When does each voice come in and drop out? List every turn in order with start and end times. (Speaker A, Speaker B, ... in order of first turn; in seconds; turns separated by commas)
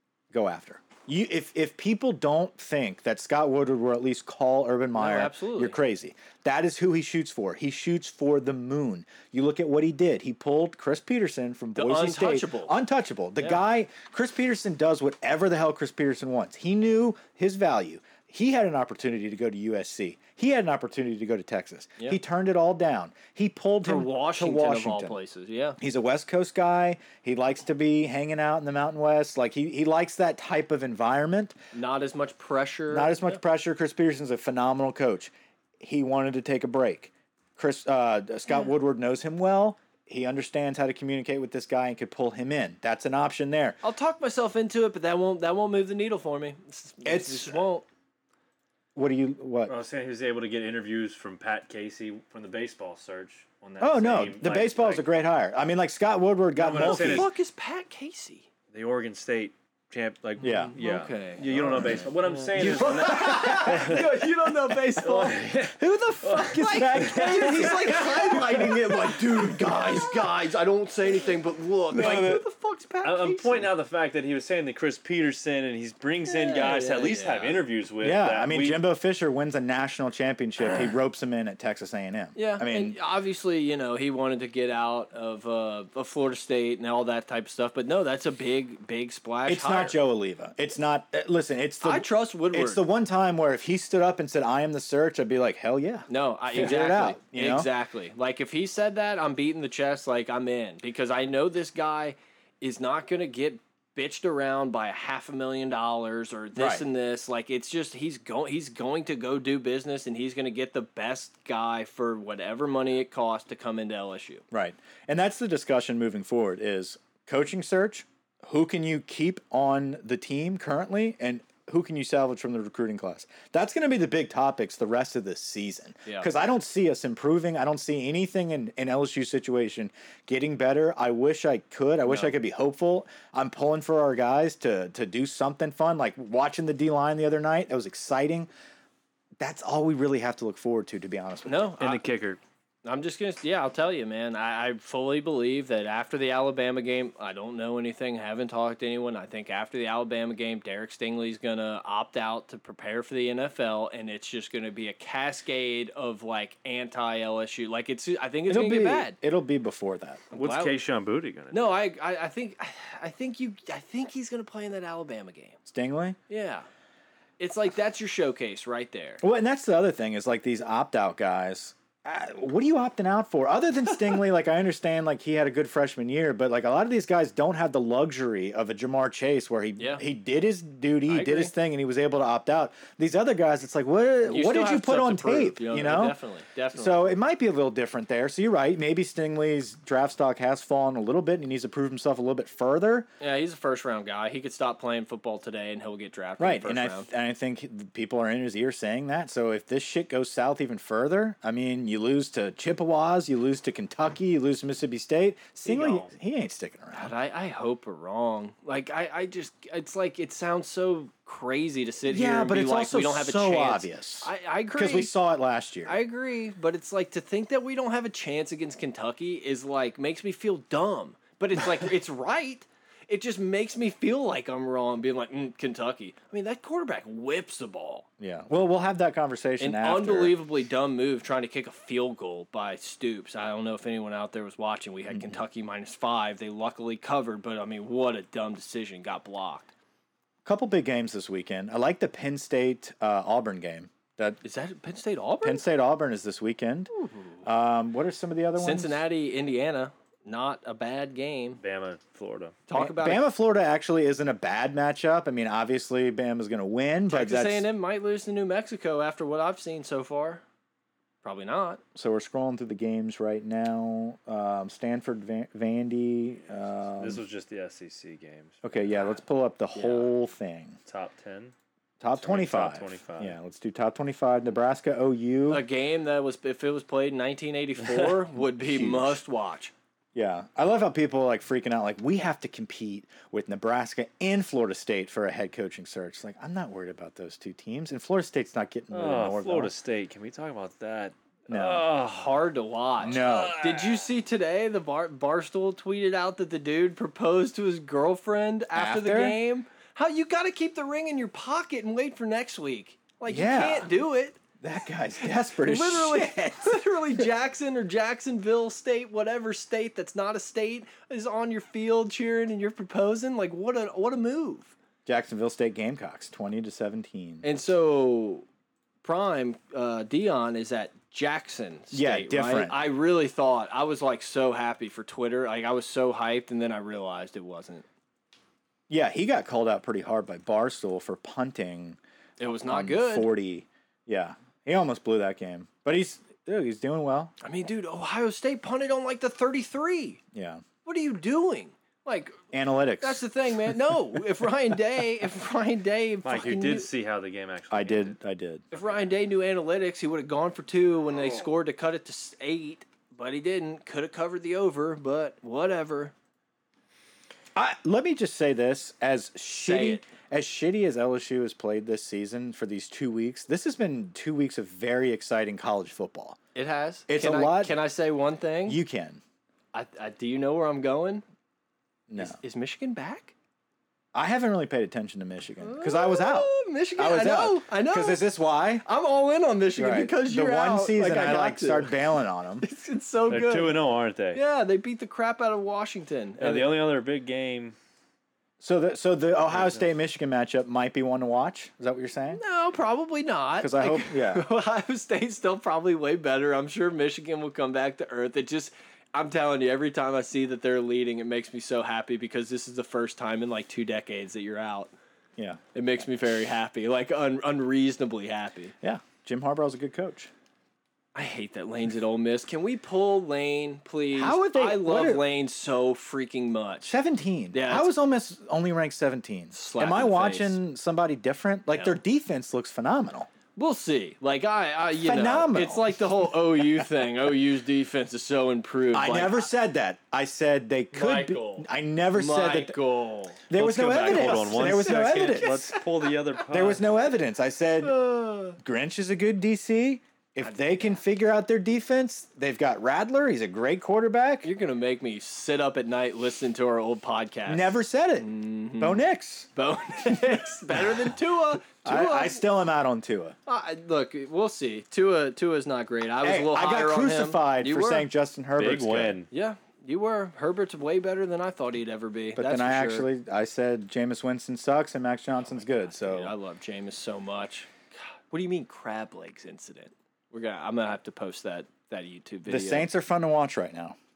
Speaker A: 0.3-25.2, Speaker B: 5.0-5.8, Speaker B: 11.8-12.7, Speaker B: 23.8-25.8, Speaker A: 25.8-31.6, Speaker B: 31.7-33.4, Speaker A: 32.9-43.8, Speaker B: 43.8-47.9, Speaker A: 47.0-47.6, Speaker A: 49.0-49.8, Speaker C: 49.7-55.1, Speaker A: 53.8-57.3, Speaker C: 56.6-57.3, Speaker B: 56.7-58.5, Speaker C: 58.7-64.3, Speaker A: 60.4-60.8, Speaker B: 60.4-61.9, Speaker A: 61.5-62.1, Speaker B: 62.5-73.7, Speaker A: 62.6-64.0, Speaker C: 65.0-68.7, Speaker A: 66.5-69.1, Speaker C: 72.0-72.4, Speaker C: 73.0-78.8, Speaker B: 76.3-77.6, Speaker A: 78.0-83.0, Speaker B: 82.3-90.0, Speaker A: 89.5-97.7, Speaker B: 91.8-92.8, Speaker B: 96.1-114.4, Speaker A: 106.5-106.8, Speaker A: 114.5-138.5, Speaker B: 132.1-132.3, Speaker A: 139.4-141.7, Speaker B: 141.5-142.0, Speaker C: 141.8-142.4, Speaker B: 142.8-159.2, Speaker A: 158.5-160.2, Speaker B: 160.3-160.8, Speaker C: 160.3-161.7, Speaker B: 161.5-165.6, Speaker A: 165.7-166.2, Speaker B: 166.3-166.7, Speaker B: 167.4-169.2, Speaker A: 169.2-186.2, Speaker B: 181.1-181.5, Speaker B: 184.2-187.1, Speaker A: 186.8-193.1, Speaker B: 193.2-197.1, Speaker A: 196.4-207.1, Speaker C: 205.7-206.1, Speaker B: 207.0-215.1, Speaker A: 212.1-216.0, Speaker B: 215.9-228.1, Speaker A: 228.2-230.3, Speaker B: 229.6-239.7, Speaker A: 235.1-235.4, Speaker A: 240.4-244.4, Speaker B: 244.4-245.7, Speaker A: 245.4-246.9, Speaker B: 246.9-247.4, Speaker A: 247.4-249.0, Speaker B: 248.6-251.6, Speaker C: 251.6-252.6, Speaker B: 252.7-253.2, Speaker A: 252.8-257.7, Speaker B: 257.1-260.4, Speaker B: 261.2-261.8, Speaker A: 261.9-267.2, Speaker C: 267.0-268.9, Speaker A: 268.6-270.8, Speaker B: 269.8-270.1, Speaker C: 270.9-271.5, Speaker A: 272.0-275.6, Speaker C: 272.2-273.4, Speaker B: 275.5-279.7, Speaker A: 278.5-279.2, Speaker A: 280.1-289.7, Speaker C: 288.9-292.4, Speaker A: 291.5-291.9, Speaker B: 292.0-304.4, Speaker A: 293.0-293.6, Speaker C: 293.0-294.1, Speaker A: 298.8-299.4, Speaker A: 303.3-303.9, Speaker A: 304.6-307.2, Speaker B: 305.4-314.7, Speaker A: 315.1-317.5, Speaker B: 317.4-318.4, Speaker B: 319.0-327.9, Speaker A: 321.9-322.8, Speaker A: 328.9-332.0, Speaker B: 332.4-333.3, Speaker A: 332.7-337.3, Speaker B: 337.4-340.2, Speaker A: 340.3-340.6, Speaker B: 340.9-342.4, Speaker A: 342.5-343.2, Speaker B: 343.0-346.9, Speaker C: 346.2-348.2, Speaker A: 347.7-348.6, Speaker C: 348.7-349.1, Speaker B: 348.7-356.1, Speaker A: 357.6-366.4, Speaker B: 359.6-360.1, Speaker B: 366.6-368.8, Speaker A: 367.1-367.8, Speaker A: 368.7-369.2, Speaker B: 369.7-371.2, Speaker A: 372.1-372.4, Speaker B: 372.2-373.3, Speaker A: 374.1-378.8, Speaker B: 375.6-378.3, Speaker B: 378.8-382.1, Speaker A: 379.8-382.7, Speaker B: 382.6-386.8, Speaker C: 383.3-384.4, Speaker C: 386.4-387.8, Speaker A: 388.6-392.4, Speaker B: 392.3-404.9, Speaker A: 393.6-394.4, Speaker B: 405.7-408.7, Speaker A: 408.8-410.3, Speaker B: 411.1-416.9, Speaker A: 414.1-415.2, Speaker A: 416.9-423.3, Speaker B: 417.5-417.9, Speaker B: 419.5-420.6, Speaker B: 423.6-429.5, Speaker A: 425.0-426.0, Speaker A: 428.9-432.8, Speaker C: 430.9-431.5, Speaker B: 432.1-436.1, Speaker A: 433.5-435.8, Speaker C: 433.6-436.8, Speaker A: 436.5-437.9, Speaker B: 437.8-438.6, Speaker A: 438.6-444.5, Speaker B: 440.4-440.9, Speaker B: 444.4-449.0, Speaker A: 447.5-449.5, Speaker B: 449.6-452.4, Speaker A: 451.9-453.4, Speaker B: 453.5-458.1, Speaker A: 456.2-459.2, Speaker C: 458.6-459.3, Speaker B: 459.3-463.1, Speaker A: 462.4-466.3, Speaker B: 465.5-472.9, Speaker A: 472.5-474.0